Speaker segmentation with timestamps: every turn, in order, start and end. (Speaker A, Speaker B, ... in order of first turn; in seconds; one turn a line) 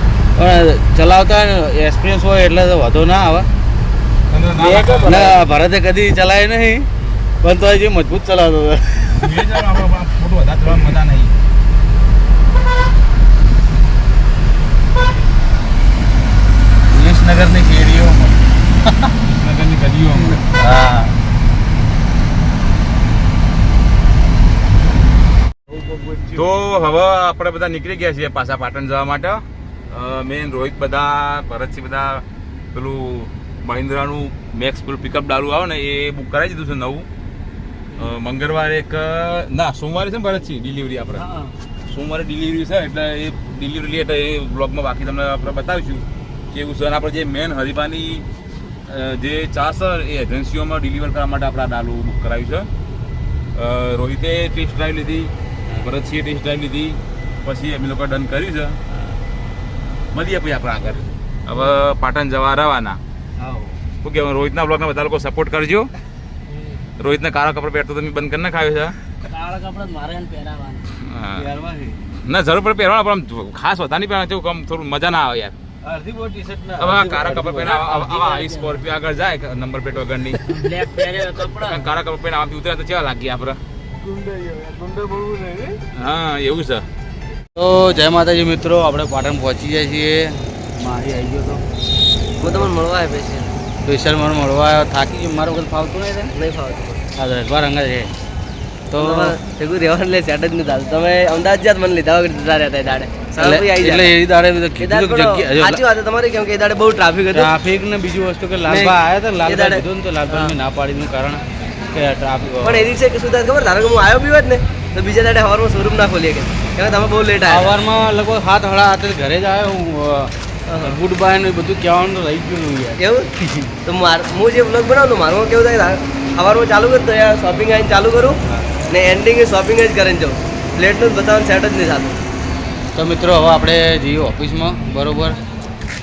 Speaker A: 0.3-3.5
Speaker B: 4.3-5.4
Speaker A: 4.6-6.9
Speaker A: 7.4-9.4
Speaker B: 9.1-11.3
Speaker A: 16.9-18.4
Speaker B: 19.2-20.5
Speaker A: 20.5-21.1
Speaker A: 25.8-26.4
Speaker B: 26.3-37.1
Speaker B: 38.0-41.2
Speaker C: 41.1-41.5
Speaker B: 41.9-48.2
Speaker B: 48.9-52.7
Speaker B: 53.5-55.3
Speaker B: 55.8-58.8
Speaker B: 60.1-63.0
Speaker A: 63.4-63.8
Speaker B: 64.0-65.9
Speaker C: 66.5-66.8
Speaker B: 67.0-69.0
Speaker C: 69.2-70.9
Speaker B: 71.0-71.4
Speaker A: 71.3-72.0
Speaker B: 72.2-75.5
Speaker A: 75.8-77.7
Speaker B: 76.8-80.4
Speaker C: 77.6-78.9
Speaker C: 80.5-81.9
Speaker B: 81.5-83.6
Speaker A: 84.0-85.8
Speaker B: 85.9-86.8
Speaker A: 87.5-91.6
Speaker D: 92.4-93.6
Speaker A: 93.8-96.3
Speaker D: 96.3-97.0
Speaker A: 97.2-98.1
Speaker A: 98.9-99.3
Speaker D: 99.0-104.1
Speaker A: 103.4-105.8
Speaker D: 104.8-107.5
Speaker A: 107.3-112.9
Speaker D: 108.7-110.5
Speaker D: 112.6-117.7
Speaker A: 117.5-123.7
Speaker D: 120.7-121.0
Speaker D: 123.0-123.3
Speaker D: 123.8-128.4
Speaker D: 128.9-132.2
Speaker A: 132.9-135.4